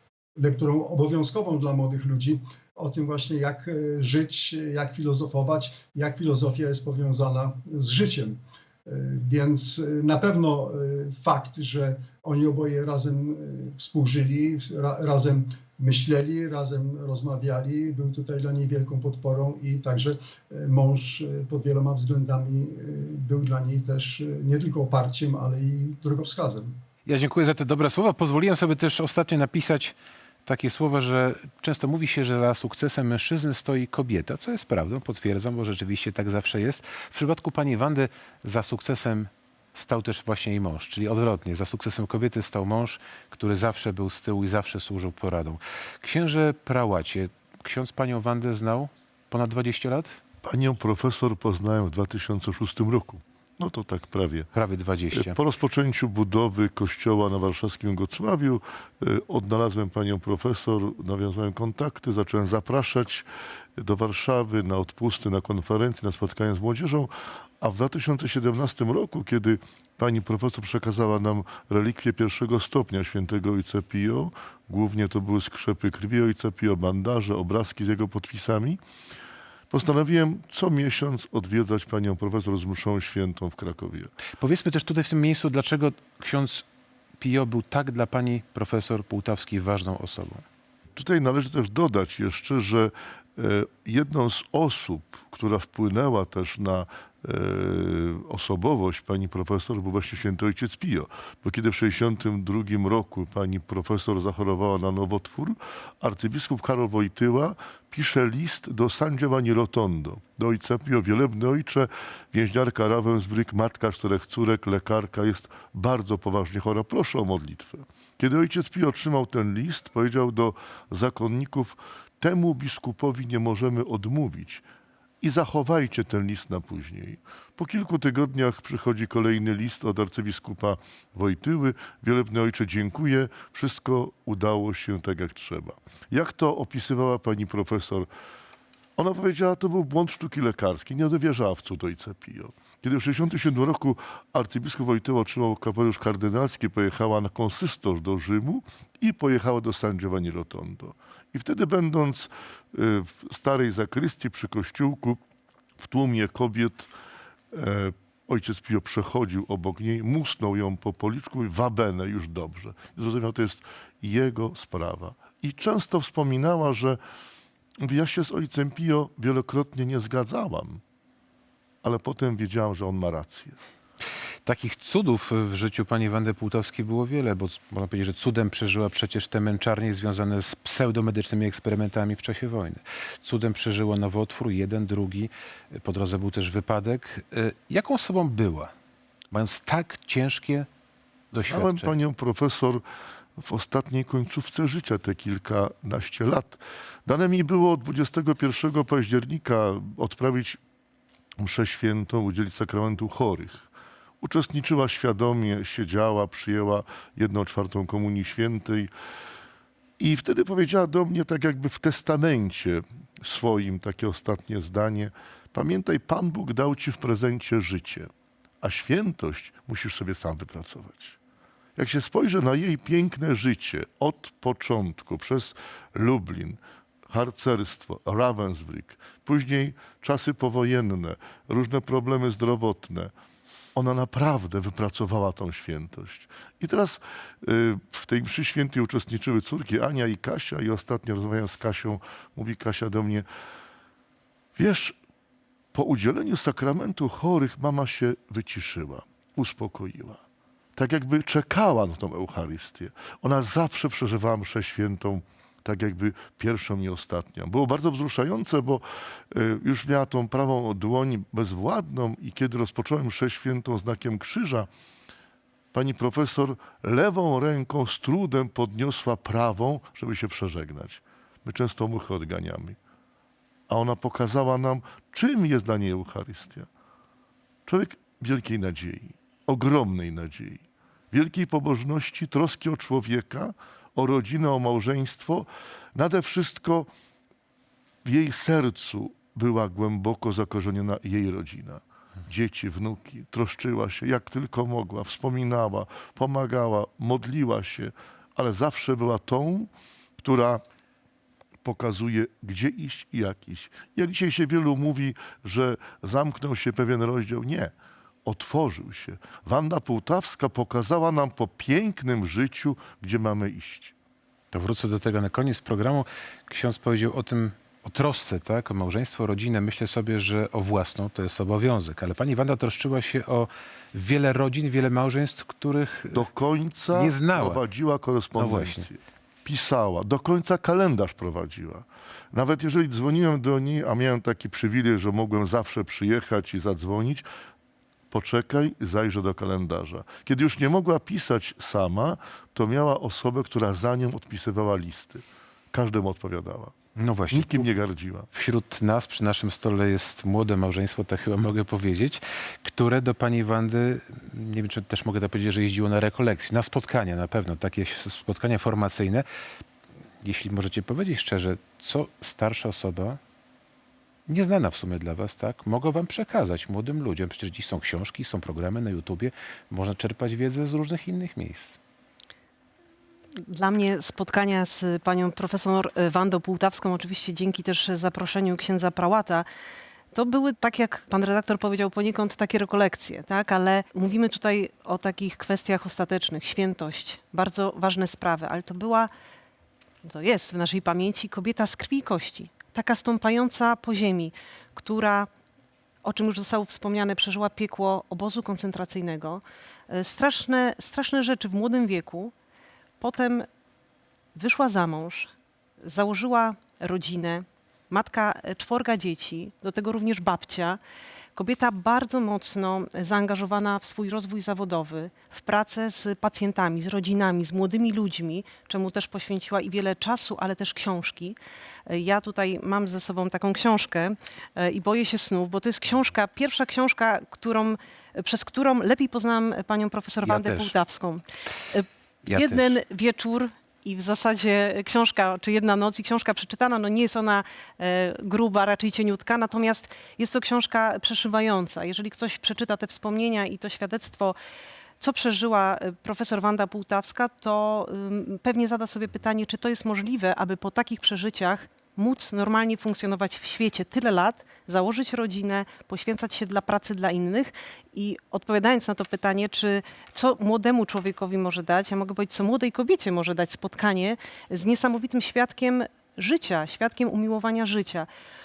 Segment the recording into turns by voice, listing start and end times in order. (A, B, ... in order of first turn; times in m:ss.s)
0:00.4-0:26.7 A
0:27.1-0:29.9 B
0:30.5-0:50.2 B
0:50.4-0:54.5 C
0:54.6-0:55.4 B
0:55.1-1:03.3 C
1:03.8-1:18.8 C
1:19.7-1:24.1 C
1:24.4-1:26.6 B
1:27.2-1:30.4 B
1:31.0-2:04.6 C
2:05.2-2:18.1 C
2:19.0-2:35.2 C
2:35.8-2:36.9 C
2:37.5-2:47.0 C
2:47.8-2:50.8 C
2:51.8-2:53.6 C
2:54.4-3:08.7 B
3:09.3-3:10.7 B
3:11.3-3:11.9 B
3:11.4-3:12.8 C
3:13.4-3:20.6 C
3:21.4-3:23.7 C
3:24.2-3:28.9 C
3:30.0-3:38.1 C
3:38.6-3:41.2 C
3:41.8-3:53.1 C
3:53.8-4:03.3 C
4:04.6-4:05.0 C
4:05.7-4:10.2 C
4:10.8-4:24.7 C
4:25.7-4:32.8 C
4:33.7-4:36.7 C
4:37.7-4:46.9 C
4:48.0-5:00.6 C
5:01.6-5:07.7 C
5:08.3-5:13.9 C
5:14.5-5:26.3 B
5:26.1-5:37.3 C
5:26.9-5:27.6 B
5:28.4-5:28.9 B
5:38.1-5:46.8 C
5:47.0-5:47.7 B
5:47.3-5:48.3 C
5:48.3-5:59.3 B
6:00.2-6:03.2 B
6:04.3-6:11.8 B
6:13.5-6:19.5 D
6:20.1-6:29.1 D
6:30.1-6:35.3 D
6:36.0-6:42.3 D
6:43.0-6:43.5 D
6:44.4-6:50.8 D
6:51.4-7:01.4 D
7:01.9-7:24.4 D
7:10.2-7:10.7 B
7:12.3-7:12.8 B
7:25.0-7:48.1 D